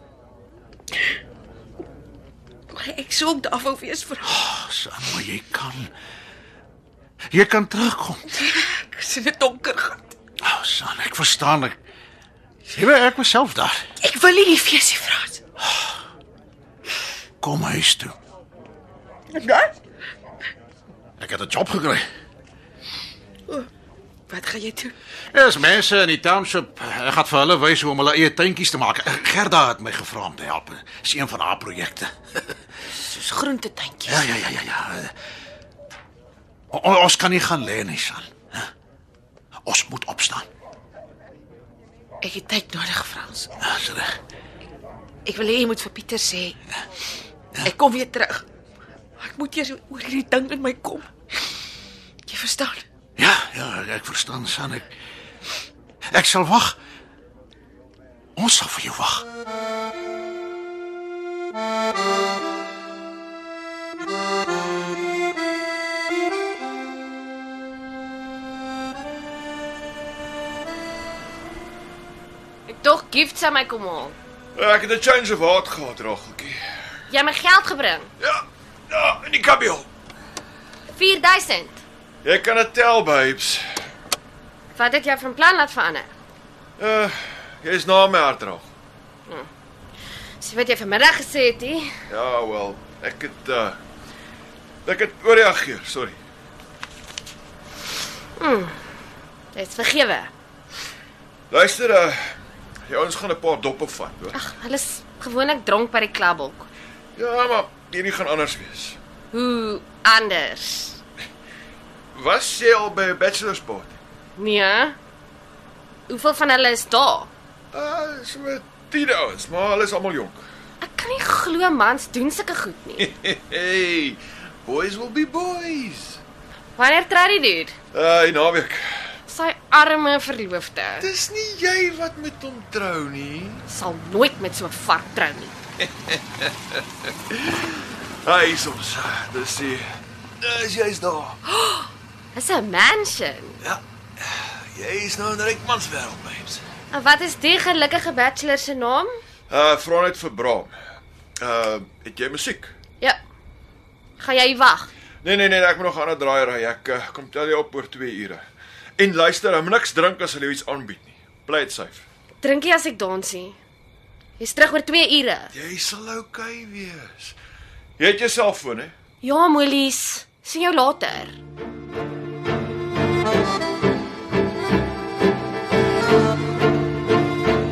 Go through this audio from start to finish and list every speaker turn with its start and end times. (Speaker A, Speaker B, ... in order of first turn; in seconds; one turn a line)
Speaker A: 2.7-4.3
Speaker B: 4.2-5.9
Speaker B: 7.3-8.2
Speaker A: 8.3-10.2
Speaker B: 10.4-11.8
Speaker B: 12.7-13.8
Speaker A: 14.0-15.4
Speaker B: 15.6-15.9
Speaker B: 17.4-18.1
Speaker A: 19.4-19.7
Speaker B: 21.2-22.1
Speaker A: 24.3-24.9
Speaker B: 25.3-32.5
Speaker A: 32.9-34.2
Speaker B: 34.1-35.1
Speaker B: 36.7-38.7
Speaker B: 39.6-40.5
Speaker A: 42.2-43.5
Speaker B: 43.6-44.1
Speaker A: 45.2-46.6
Speaker A: 47.6-48.4
Speaker A: 49.2-51.1
Speaker A: 52.3-52.8
Speaker B: 53.2-54.9
Speaker B: 56.1-56.8
Speaker B: 58.4-59.2
Speaker C: 72.7-74.2
Speaker D: 74.6-76.6
Speaker C: 77.1-78.1
Speaker D: 78.2-79.9
Speaker C: 80.9-81.8
Speaker D: 82.2-83.7
Speaker C: 84.8-86.1
Speaker D: 86.8-88.7
Speaker C: 90.4-91.9
Speaker D: 92.1-93.8
Speaker D: 94.8-96.2
Speaker C: 98.4-98.8
Speaker C: 99.5-100.3
Speaker D: 101.5-102.3
Speaker D: 102.9-104.4
Speaker C: 104.3-106.7
Speaker D: 107.2-109.0
Speaker C: 109.3-111.0
Speaker D: 112.1-114.0
Speaker C: 114.4-115.0
Speaker C: 116.1-117.3
Speaker D: 117.7-120.4
Speaker C: 120.8-123.1
Speaker D: 123.0-126.2
Speaker C: 126.8-127.8
Speaker D: 127.9-129.1
Speaker C: 129.3-131.1
Speaker D: 131.0-133.7
Speaker C: 133.7-135.5
Speaker D: 136.1-139.9
Speaker D: 140.4-141.4
Speaker C: 141.6-143.6
Speaker D: 143.6-146.6
Speaker C: 146.9-149.2
Speaker D: 149.5-150.7
Speaker D: 151.4-152.7
Speaker C: 154.2-154.9
Speaker D: 155.2-158.4
Speaker D: 159.0-162.1
Speaker C: 162.4-163.6
Speaker C: 164.4-165.5
Speaker D: 165.5-167.4
Speaker D: 168.0-168.9
Speaker C: 169.2-171.4